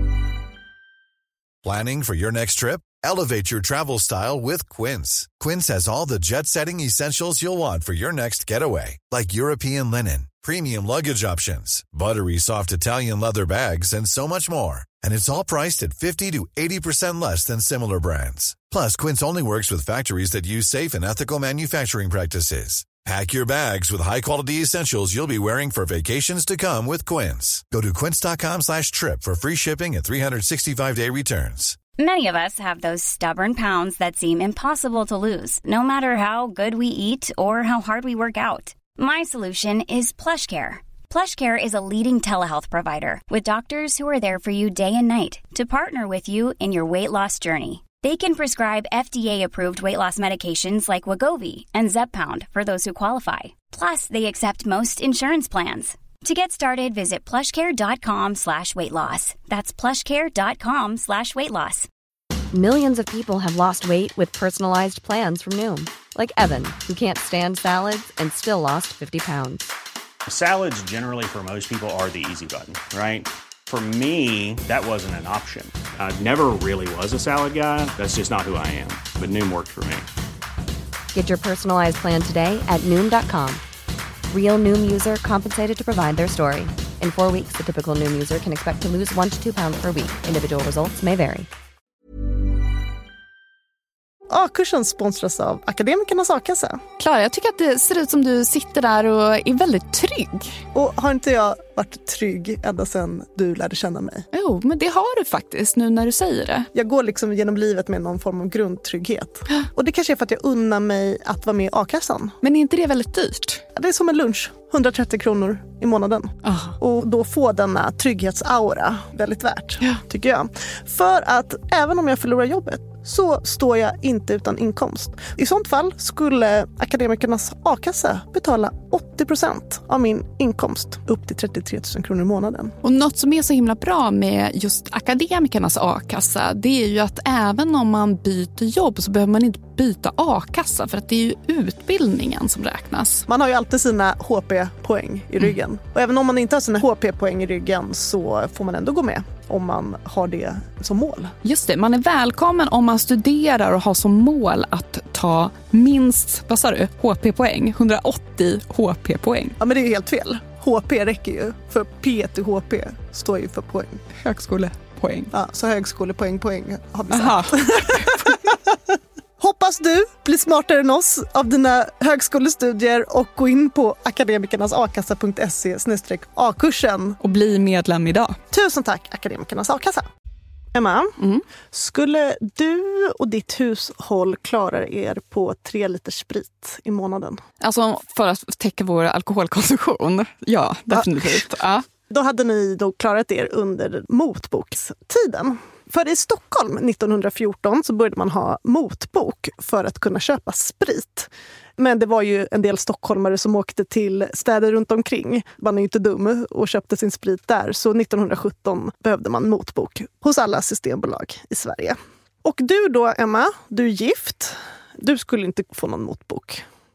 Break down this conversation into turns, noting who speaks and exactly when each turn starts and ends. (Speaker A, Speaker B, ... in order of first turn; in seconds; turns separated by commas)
Speaker A: 1.6-31.8, Speaker B: 32.0-61.9, Speaker C: 62.5-69.7, Speaker D: 70.3-80.0, Speaker C: 81.1-83.6, Speaker C: 84.3-91.5, Speaker E: 94.3-96.8, Speaker F: 97.0-100.6, Speaker E: 100.7-104.3, Speaker F: 104.3-106.7, Speaker E: 106.7-112.3, Speaker F: 112.4-113.6, Speaker E: 113.8-132.7, Speaker F: 116.4-116.8, Speaker F: 132.8-143.2, Speaker E: 143.3-151.3, Speaker F: 151.4-159.6, Speaker E: 159.6-164.0, Speaker F: 164.2-165.3, Speaker E: 165.3-168.6, Speaker F: 167.1-168.3, Speaker E: 169.4-177.2, Speaker F: 177.2-178.4, Speaker E: 178.5-180.1, Speaker E: 180.7-181.1, Speaker E: 181.7-187.4, Speaker F: 187.6-191.8, Speaker E: 190.9-191.4, Speaker E: 192.1-216.7